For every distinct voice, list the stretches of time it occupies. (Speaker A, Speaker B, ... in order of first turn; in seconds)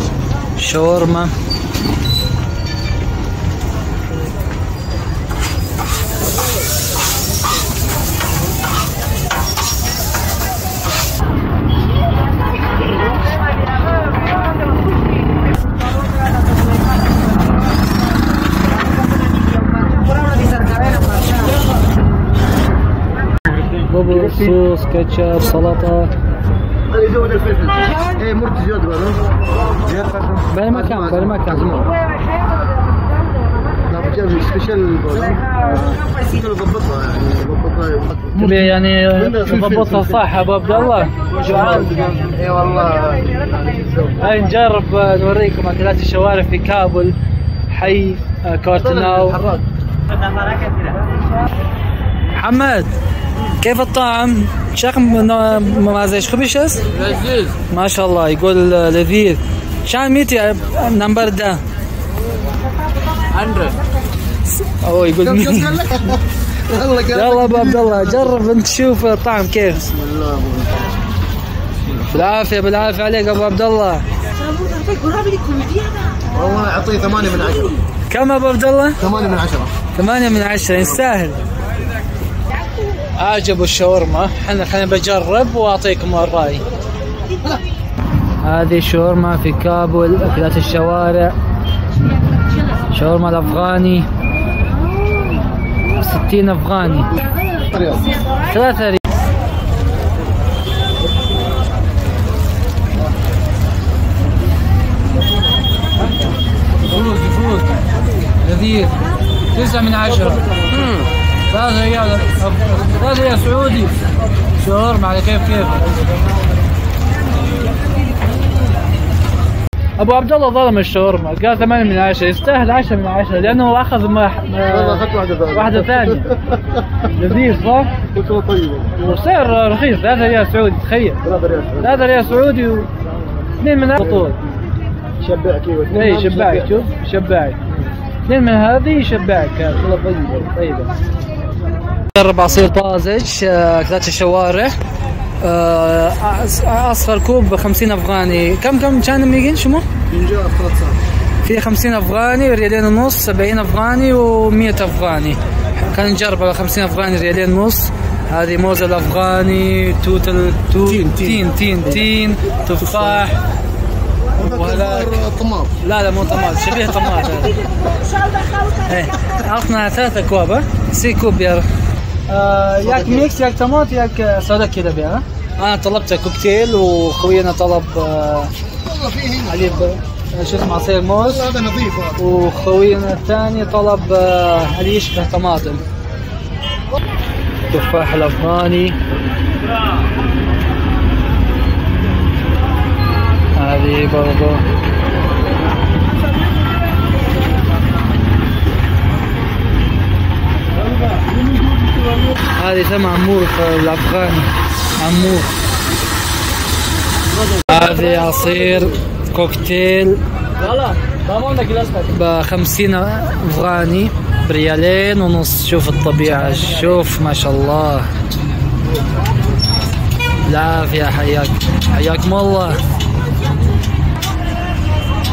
Speaker A: 0.6-1.3, 23.9-26.1, 30.5-31.8, 38.4-41.9, 44.2-47.1, 47.7-49.4, 52.4-52.9, 53.6-61.6, 64.8-65.8, 67.1-69.9, 72.1-74.0, 78.1-79.0, 80.0-81.4, 83.2-86.6, 88.4-91.3, 92.9-94.1, 95.9-97.1, 98.5-99.0, 106.9-107.7, 108.4-109.0, 109.5-110.5, 111.5-114.0, 114.6-115.8, 120.0-126.3, 127.2-127.9, 129.0-131.2, 131.8-132.9, 133.6-134.4, 135.9-137.6, 138.3-140.1, 142.1-144.7, 145.4-149.8, 151.4-155.4, 155.9-163.4, 164.4-165.2, 165.8-167.6, 168.8-171.7, 172.3-178.5, 179.5-181.4, 182.2-185.8, 187.7-189.0, 193.6-194.7, 202.5-205.5, 207.7-210.2, 212.1-218.1, 220.5-222.8
Speaker B: 24.1-24.6, 26.9-29.2, 29.9-31.9, 33.9-40.2, 41.3-44.2, 48.8-49.7, 65.2-68.3, 69.9-70.9, 71.8-72.1, 76.3-77.8, 79.0-79.7, 97.5-98.1, 110.7-111.1, 124.7-126.8, 128.1-128.9, 131.2-132.3, 134.0-134.4, 135.2-136.9, 139.9-140.8, 150.1-151.0, 160.8-162.1, 162.8-163.3, 164.4-165.7, 172.8-173.3, 178.8-179.9, 181.2-182.2, 201.3-202.2, 207.3-209.0
Speaker C: 57.0-57.4, 63.3-63.8, 210.8-212.0